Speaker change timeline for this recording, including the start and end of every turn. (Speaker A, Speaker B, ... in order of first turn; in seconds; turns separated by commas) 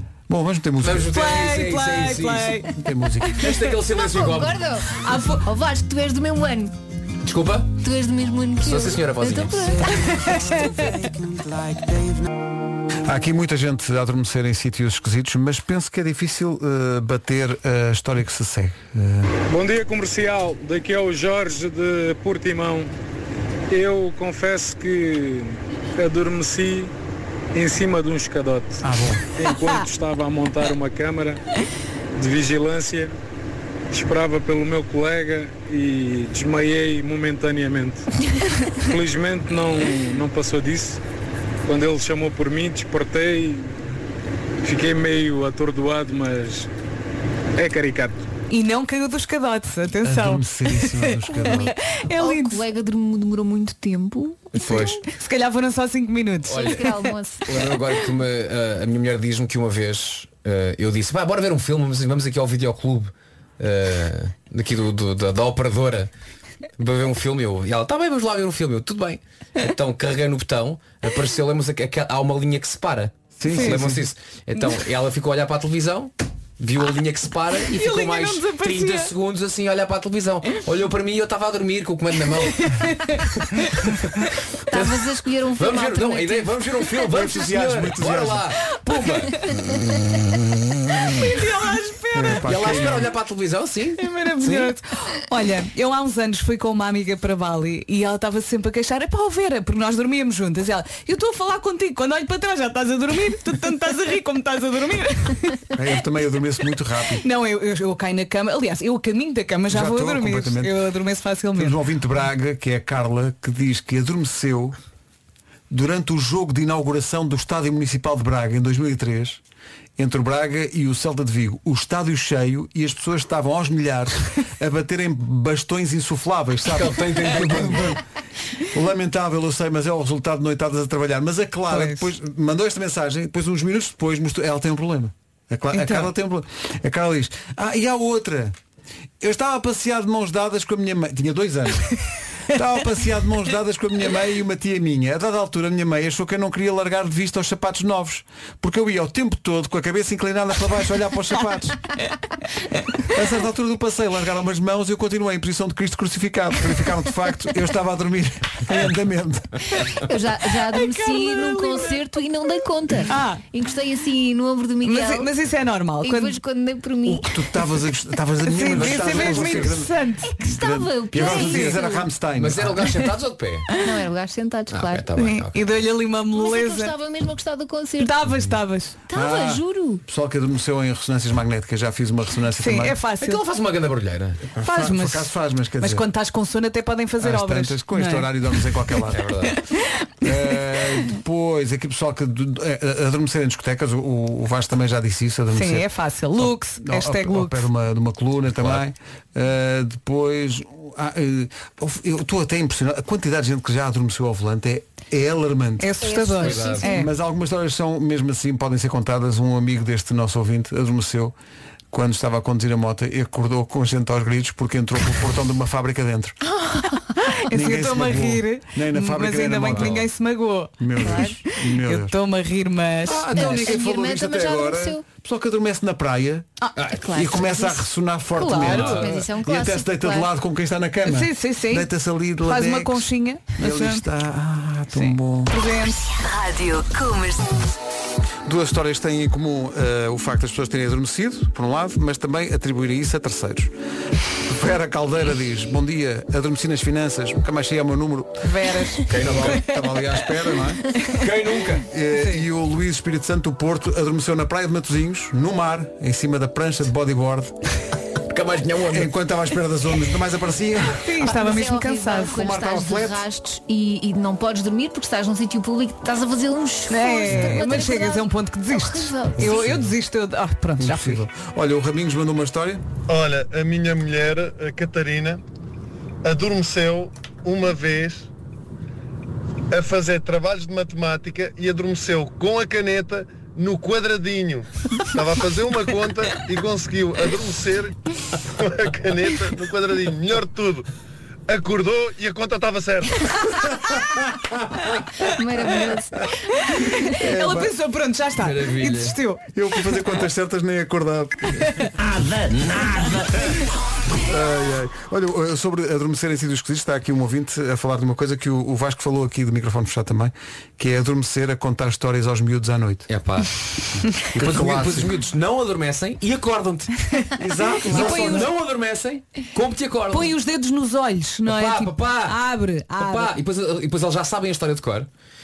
Speaker A: 0.3-1.1, Speaker B: 0.8-2.7, Speaker C: 1.1-2.7, Speaker A: 2.7-3.5, Speaker B: 3.4-4.7, Speaker D: 3.7-6.7, Speaker C: 5.0-5.5, Speaker B: 7.2-7.8, Speaker D: 7.8-10.8, Speaker B: 8.6-9.9, Speaker C: 10.3-10.7, Speaker A: 13.1-19.3, Speaker E: 19.5-22.9, Speaker E: 23.7-26.9, Speaker E: 27.5-28.8, Speaker A: 28.8-29.3, Speaker E: 29.4-31.4, Speaker C: 29.4-29.8, Speaker E: 32.2-33.1, Speaker E: 33.9-38.1, Speaker E: 38.8-41.0, Speaker E: 41.7-43.8, Speaker E: 44.6-46.7, Speaker E: 47.6-48.1, Speaker C: 48.5-52.6, Speaker A: 50.0-51.8, Speaker D: 51.3-55.0, Speaker B: 54.5-55.0, Speaker C: 55.1-57.1, Speaker B: 56.5-66.1, Speaker D: 56.5-57.4, Speaker B: 66.8-91.2, Speaker A: 73.4-74.0, Speaker C: 73.5-73.9, Speaker C: 77.7-79.1, Speaker C: 82.6-83.2, Speaker D: 84.7-86.5, Speaker A: 87.1-88.5, Speaker C: 91.2-92.4, Speaker A: 92.1-93.1, Speaker B: 92.3-94.7, Speaker C: 94.0-105.7, Speaker A: 105.7-107.2, Speaker C: 107.2-111.8, Speaker A: 109.7-110.7, Speaker A: 111.6-114.8, Speaker A: 115.7-119.4, Speaker A: 120.0-128.0, Speaker B: 126.7-128.0, Speaker A: 128.6-138.5, Speaker C: 131.7-132.1, Speaker C: 135.7-136.1, Speaker A: 139.2-142.0, Speaker A: 142.5-151.8, Speaker A: 153.1-159.8, Speaker D: 159.9-165.3, Speaker C: 160.5-162.1, Speaker C: 163.1-163.4, Speaker C: 164.8-166.4, Speaker D: 166.0-167.6, Speaker A: 167.1-169.9, Speaker C: 168.4-170.4, Speaker B: 168.8-169.7, Speaker D: 170.3-172.1, Speaker A: 170.5-172.8, Speaker B: 171.1-171.7, Speaker C: 171.3-171.8, Speaker B: 172.3-173.7, Speaker C: 173.7-174.1, Speaker D: 173.8-175.1, Speaker B: 174.7-175.7, Speaker C: 175.2-176.9, Speaker D: 176.3-178.3, Speaker C: 178.0-179.0, Speaker D: 179.1-180.0, Speaker A: 179.1-183.0, Speaker C: 182.6-183.4, Speaker B: 183.2-184.4, Speaker A: 184.6-186.1, Speaker C: 184.6-190.3, Speaker A: 187.2-189.2, Speaker B: 189.1-189.6, Speaker A: 190.2-205.9, Speaker C: 195.5-197.7, Speaker C: 205.8-207.1, Speaker D: 206.0-207.1, Speaker B: 206.4-206.9, Speaker A: 206.9-211.3, Speaker A: 211.9-216.4, Speaker D: 216.4-217.1, Speaker C: 217.2-223.7, Speaker A: 217.5-220.1, Speaker B: 219.7-220.0, Speaker A: 220.8-222.1, Speaker D: 221.0-221.4, Speaker A: 223.1-226.5, Speaker D: 223.3-225.0, Speaker B: 226.8-227.2, Speaker D: 226.9-230.3, Speaker A: 227.1-235.5, Speaker C: 228.4-229.1, Speaker B: 228.6-229.1, Speaker C: 231.1-231.9, Speaker C: 232.4-234.0, Speaker C: 234.9-237.4, Speaker A: 238.4-243.7, Speaker A: 244.4-250.9, Speaker C: 248.4-250.0, Speaker B: 249.1-249.6, Speaker C: 251.0-251.3, Speaker B: 251.1-251.9, Speaker A: 251.9-257.6, Speaker C: 252.1-252.4, Speaker B: 258.3-259.1, Speaker A: 258.9-261.2, Speaker C: 261.0-262.4, Speaker D: 261.2-269.7, Speaker A: 262.3-263.2, Speaker C: 266.9-271.2, Speaker A: 267.3-267.6, Speaker A: 269.4-270.0, Speaker A: 270.8-272.8, Speaker F: 273.1-275.4, Speaker F: 276.2-278.3, Speaker F: 279.7-287.9, Speaker F: 288.6-290.9, Speaker F: 291.5-293.3, Speaker A: 293.6-294.6, Speaker D: 295.2-296.3, Speaker C: 296.5-299.4, Speaker A: 297.1-297.7, Speaker B: 298.4-299.2, Speaker A: 299.6-301.9, Speaker C: 301.6-301.9, Speaker A: 302.7-303.1, Speaker A: 304.3-313.1, Speaker B: 313.1-313.5, Speaker B: 314.1-317.0, Speaker A: 314.1-315.1, Speaker A: 317.4-318.5, Speaker C: 317.8-318.5, Speaker B: 317.9-320.3, Speaker C: 320.1-323.4, Speaker B: 321.4-322.4, Speaker B: 322.9-325.1